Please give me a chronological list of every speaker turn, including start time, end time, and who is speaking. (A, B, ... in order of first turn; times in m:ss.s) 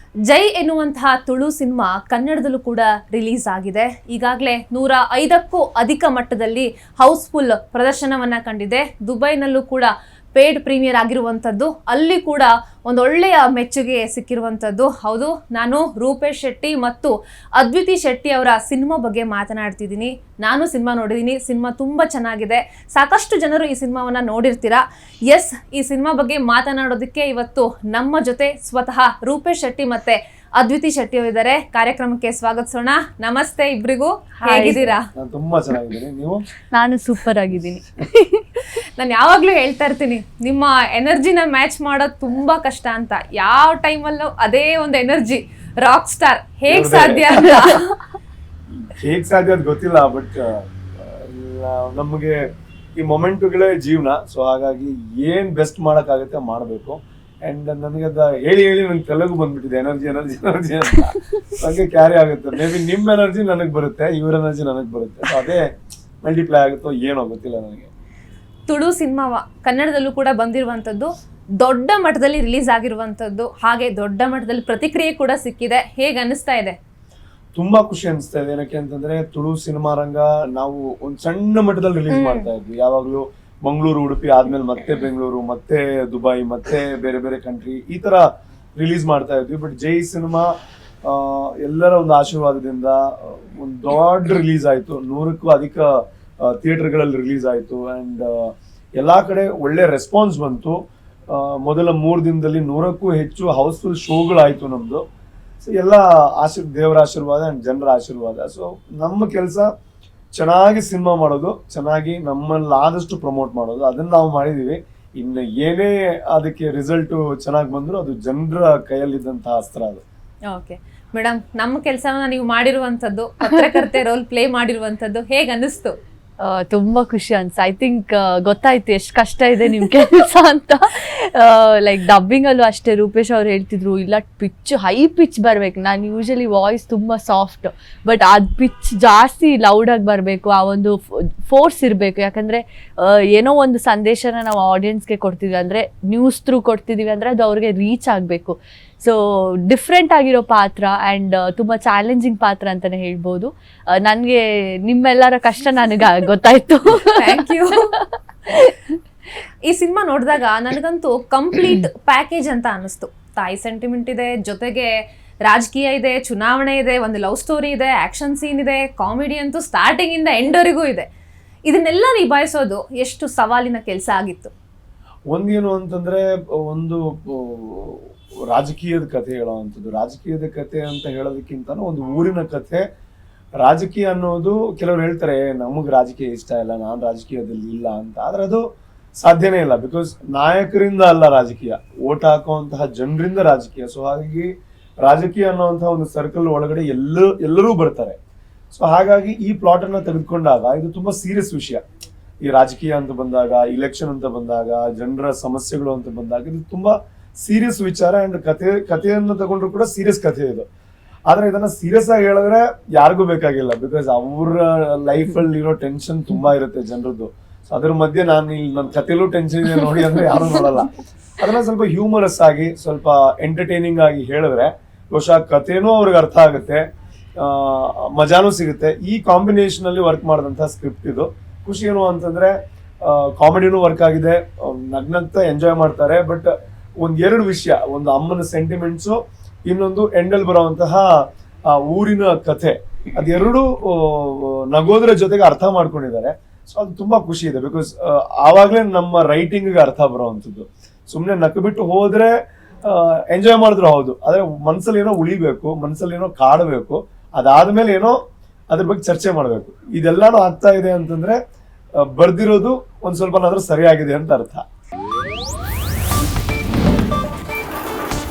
0:00.3-0:35.0 A
0:34.4-0:34.8 B
0:34.7-0:36.5 C
0:36.7-0:38.6 B
0:38.8-0:48.0 A
0:46.7-0:47.7 C
0:48.9-0:52.4 C
0:53.0-1:05.7 C
1:06.2-1:07.9 C
1:08.7-1:16.8 A
1:17.6-1:28.2 C
1:22.1-1:22.5 A
1:28.8-1:30.5 C
1:31.0-1:45.0 C
1:45.6-1:49.7 C
1:50.4-2:00.0 C
2:00.5-2:05.9 A
2:06.4-2:38.8 B
2:37.1-2:37.9 A
2:39.7-2:51.1 A
2:51.7-2:54.5 A
2:55.3-3:02.8 C
3:03.6-3:08.6 C
3:09.2-3:18.2 C
3:18.7-3:21.8 C
3:22.4-3:30.7 C
3:31.3-3:46.8 C
3:47.4-4:18.2 C
4:18.7-4:21.4 C
4:22.0-4:24.6 C